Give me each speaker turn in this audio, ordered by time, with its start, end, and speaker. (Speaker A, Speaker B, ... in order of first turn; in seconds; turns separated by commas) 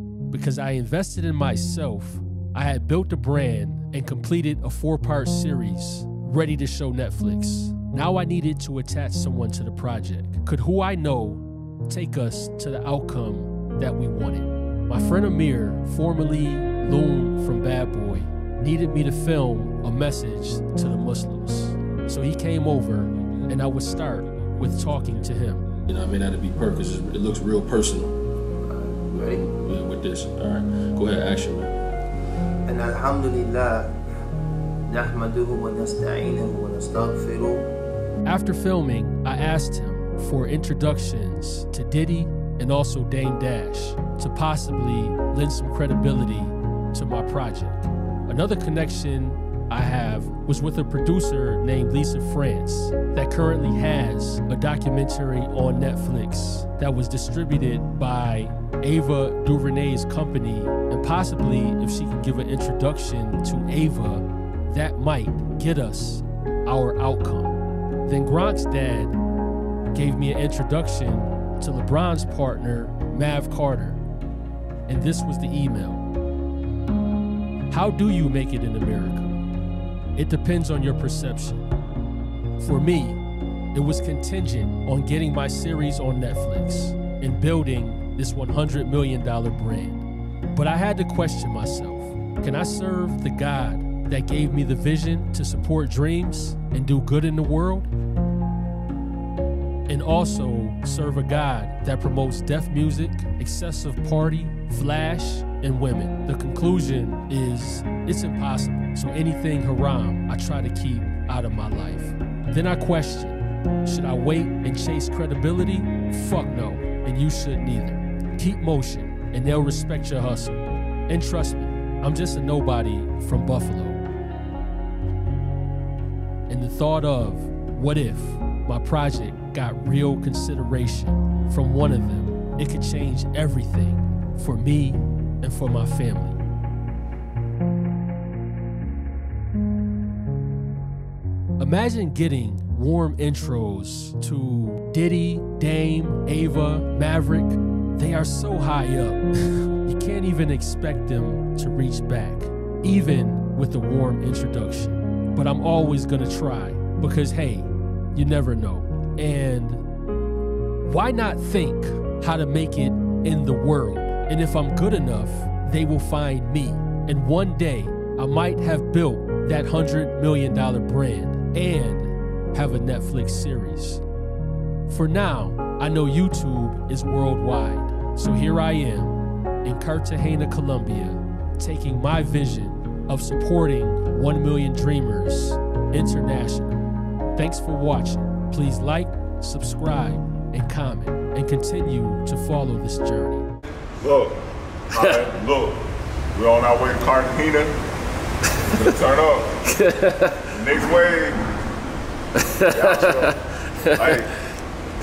Speaker A: 0.3-25.6, Speaker B: 25.9-28.1, Speaker B: 29.2-31.7, Speaker C: 32.7-33.9, Speaker C: 34.9-37.6, Speaker A: 38.2-69.1, Speaker A: 69.9-74.0, Speaker A: 74.9-76.0, Speaker A: 77.7-79.4, Speaker A: 80.2-81.6, Speaker A: 82.6-83.2, Speaker A: 83.7-97.9, Speaker A: 99.9-124.0, Speaker A: 126.5-136.4, Speaker A: 141.6-159.8, Speaker A: 160.8-174.0, Speaker A: 174.9-186.8, Speaker A: 187.3-193.4, Speaker D: 194.0-194.4, Speaker D: 194.9-197.8, Speaker B: 195.0-195.2, Speaker D: 198.6-199.6, Speaker B: 199.7-200.6, Speaker D: 200.5-201.4, Speaker B: 202.4-204.2, Speaker D: 202.7-203.4, Speaker D: 204.0-204.3